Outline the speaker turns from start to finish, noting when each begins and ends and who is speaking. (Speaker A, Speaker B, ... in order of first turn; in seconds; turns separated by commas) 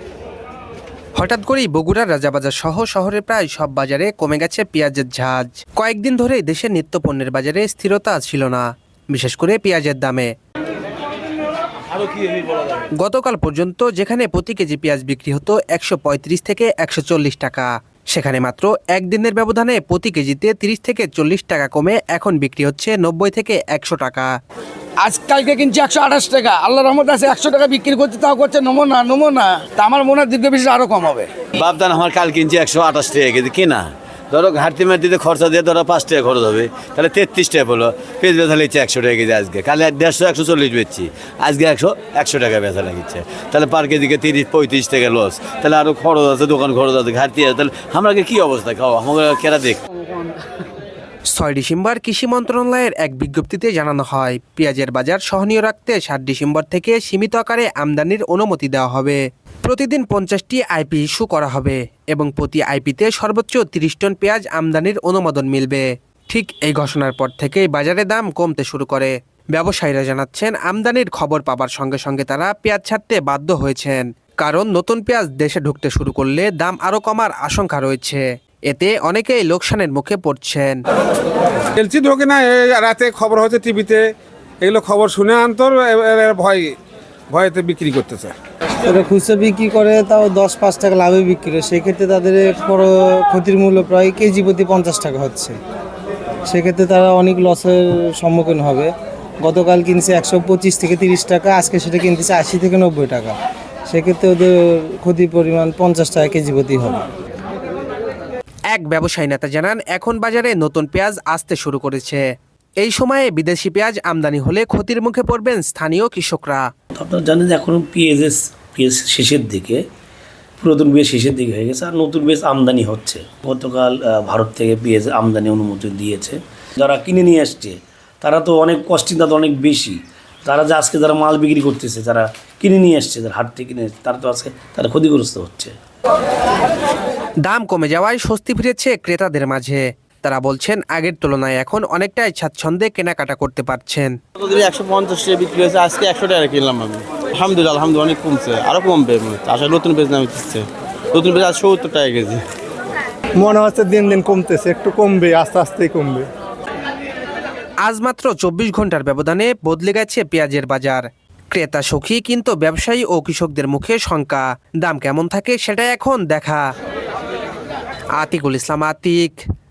Speaker A: 1.1-10.3, Speaker A: 13.0-24.3, Speaker B: 25.0-31.3, Speaker C: 31.6-49.8, Speaker A: 51.3-80.8, Speaker D: 81.8-84.1, Speaker D: 84.6-86.7, Speaker D: 87.3-88.3, Speaker E: 88.8-95.6, Speaker E: 96.4-98.9, Speaker E: 99.4-103.3, Speaker E: 103.9-107.0, Speaker A: 108.7-112.2, Speaker A: 112.8-116.6, Speaker F: 117.0-119.8, Speaker F: 120.6-135.7, Speaker A: 137.4-144.1, Speaker C: 144.4-150.6, Speaker G: 144.5-150.6, Speaker C: 151.1-151.9, Speaker G: 151.2-152.4, Speaker H: 153.4-156.2, Speaker A: 157.8-166.7, Speaker A: 168.2-169.4